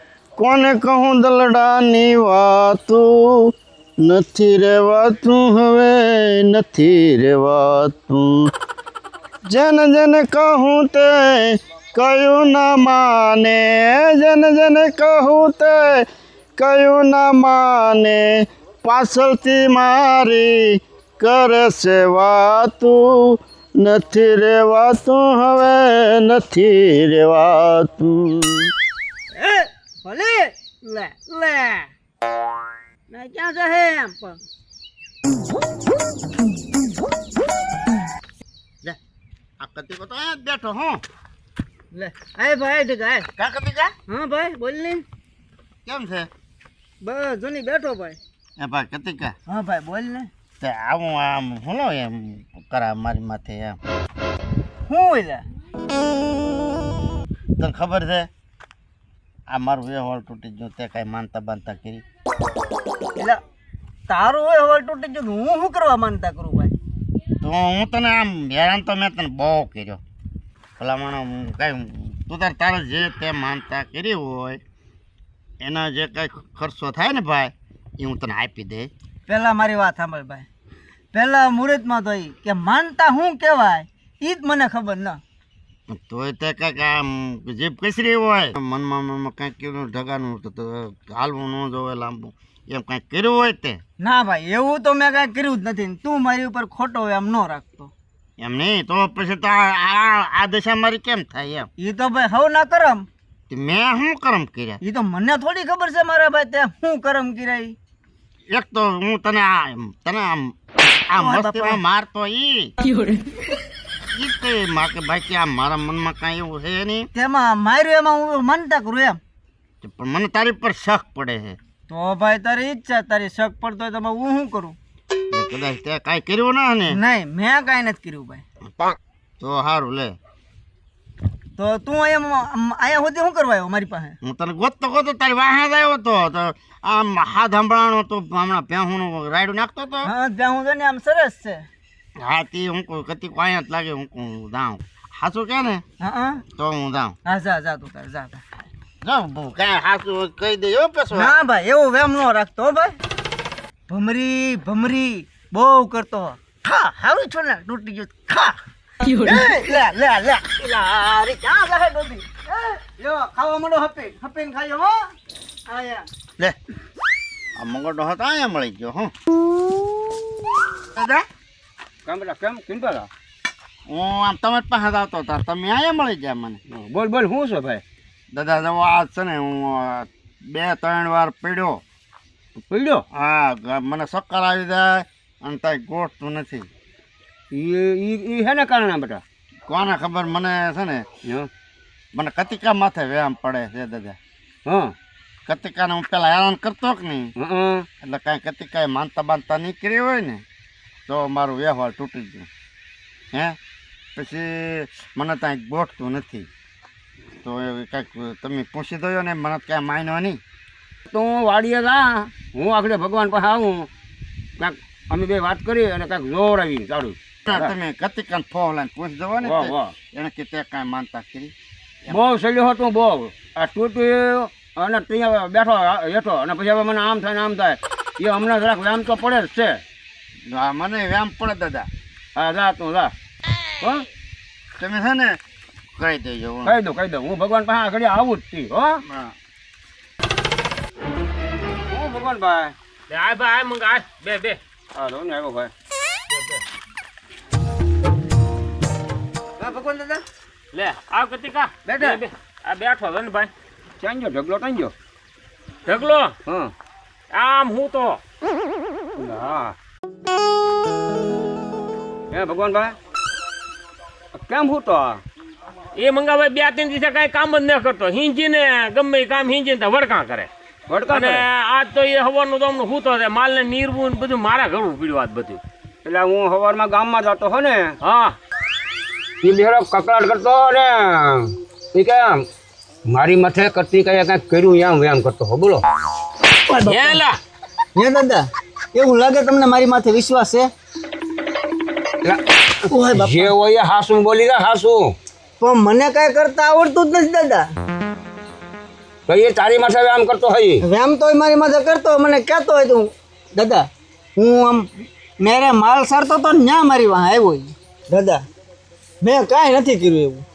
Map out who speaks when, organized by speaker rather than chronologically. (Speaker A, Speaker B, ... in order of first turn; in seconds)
Speaker A: 0.4-3.5, 4.0-8.5, 9.5-16.0, 16.6-18.2, 18.8-28.7, 39.6-41.0, 43.4-43.9, 45.9-46.3, 48.6-49.3, 50.6-53.8, 57.6-58.3, 59.5-62.0, 67.4-70.0, 70.8-74.6, 75.6-78.9, 85.9-93.8, 98.4-101.7, 103.5-104.8, 108.5-110.5, 111.1-112.7, 114.1-117.1, 119.8-121.6, 125.3-127.0, 129.4-130.2, 134.2-140.1, 142.2-145.8, 146.5-147.2, 149.0-151.3, 167.6-169.1, 170.9-171.2, 173.9-176.6, 178.3-181.8, 183.1-186.7, 189.7-191.1, 192.1-194.2, 195.4-197.3, 198.0-200.4, 201.1-202.5, 204.2-206.5, 207.4-210.4, 217.5-221.5, 230.5-231.9, 234.8-235.4, 236.0-236.8, 239.1-239.3
Speaker B: 29.4-31.9, 33.1-34.4, 41.9-43.3, 44.1-45.0, 47.0-48.2, 49.5-50.3, 54.9-55.4, 64.1-66.7, 79.3-80.5, 81.1-85.2, 94.0-97.9, 101.8-103.0, 104.8-107.7, 111.2-111.8, 117.1-119.2, 121.9-124.8, 126.9-128.4, 131.6-134.2, 140.0-141.6, 146.0-146.4, 147.2-148.5, 151.1-153.0, 153.9-158.5, 159.2-165.0, 165.7-166.1, 249.6-250.2, 286.7-287.2, 287.9-290.7, 292.9-293.5, 295.6-297.6, 300.8-304.9, 305.4-308.4, 309.2-310.4
Speaker C: 172.1-173.1, 176.7-177.8, 182.7-183.0, 187.5-189.2, 194.7-194.9, 197.4-197.8, 211.1-213.9, 214.6-217.7, 219.4-219.9, 222.1-229.8, 232.3-233.1, 236.6-239.0, 241.9-242.7, 244.9-245.7, 254.0-254.9, 256.4-256.7, 259.1-259.7, 262.3-262.9, 264.4-265.2, 270.9-271.4, 276.0-277.9, 279.4-282.4, 283.1-285.8, 293.1-295.1, 299.3-300.8
Speaker D: 243.1-244.6, 246.3-246.6, 250.7-253.5, 255.8-256.3, 257.3-258.2, 265.9-270.5, 271.1-275.6, 278.0-278.4, 286.8-287.4